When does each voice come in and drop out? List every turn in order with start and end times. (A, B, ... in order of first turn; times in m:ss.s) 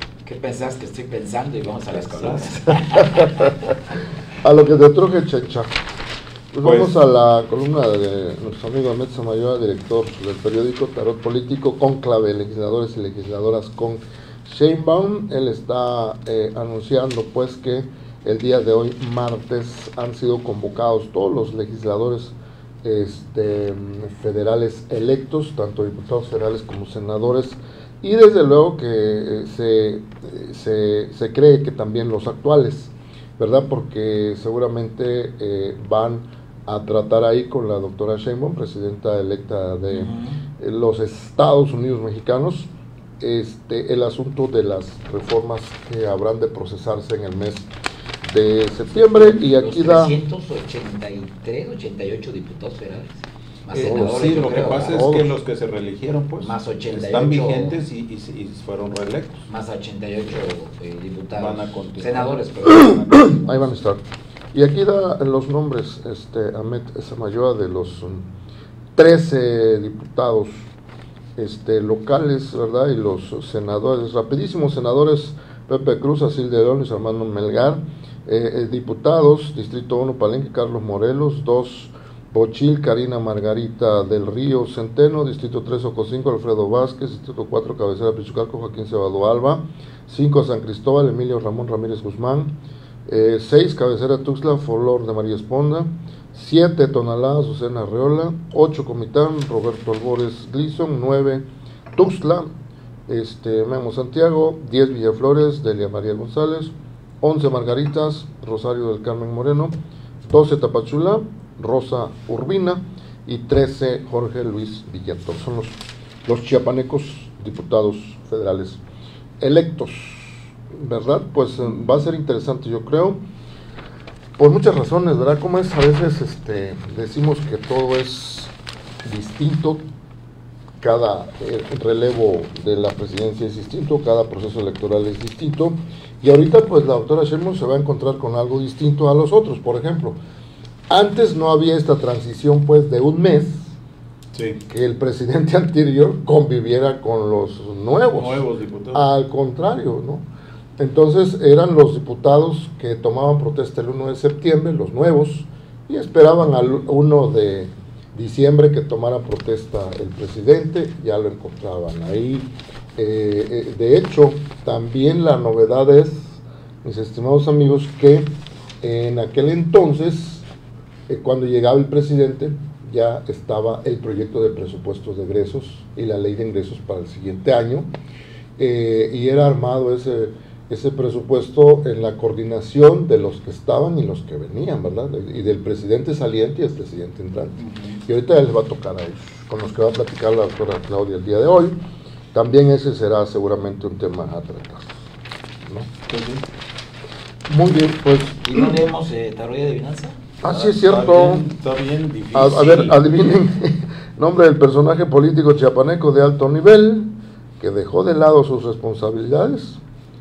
0:00.2-0:03.7 A
0:01.9-0:02.6 B
0:03.0-0:03.7 C
0:04.4-0:05.7 C
0:06.5-0:47.7 C
0:06.6-0:06.9 B
0:39.9-0:40.4 A
0:48.2-0:50.2 C
0:49.0-0:55.0 A
0:53.7-0:59.5 B
0:53.8-0:55.3 C
0:56.4-0:57.8 A
0:59.5-1:03.3 A
1:01.3-1:03.7 B
1:02.8-1:04.0 C
1:04.5-1:08.2 C
1:09.0-1:10.7 C
1:11.4-1:32.6 C
1:33.1-1:42.5 C
1:43.1-1:58.8 C
1:59.4-2:03.2 C
2:04.4-2:08.5 C
2:09.0-2:09.8 C
2:10.8-2:20.2 C
2:20.9-2:23.8 C
2:24.3-2:24.6 B
2:24.7-2:30.2 C
2:28.2-2:29.1 B
2:30.8-2:48.3 C
2:48.8-2:50.5 C
2:51.1-2:57.9 C
2:58.6-3:11.8 C
3:07.6-3:08.0 B
3:12.3-3:15.0 C
3:15.6-3:15.9 C
3:16.1-3:16.4 B
3:17.5-3:18.7 C
3:18.4-3:20.2 A
3:20.4-3:21.4 C
3:20.5-3:23.0 B
3:22.3-3:29.8 C
3:22.6-3:22.8 A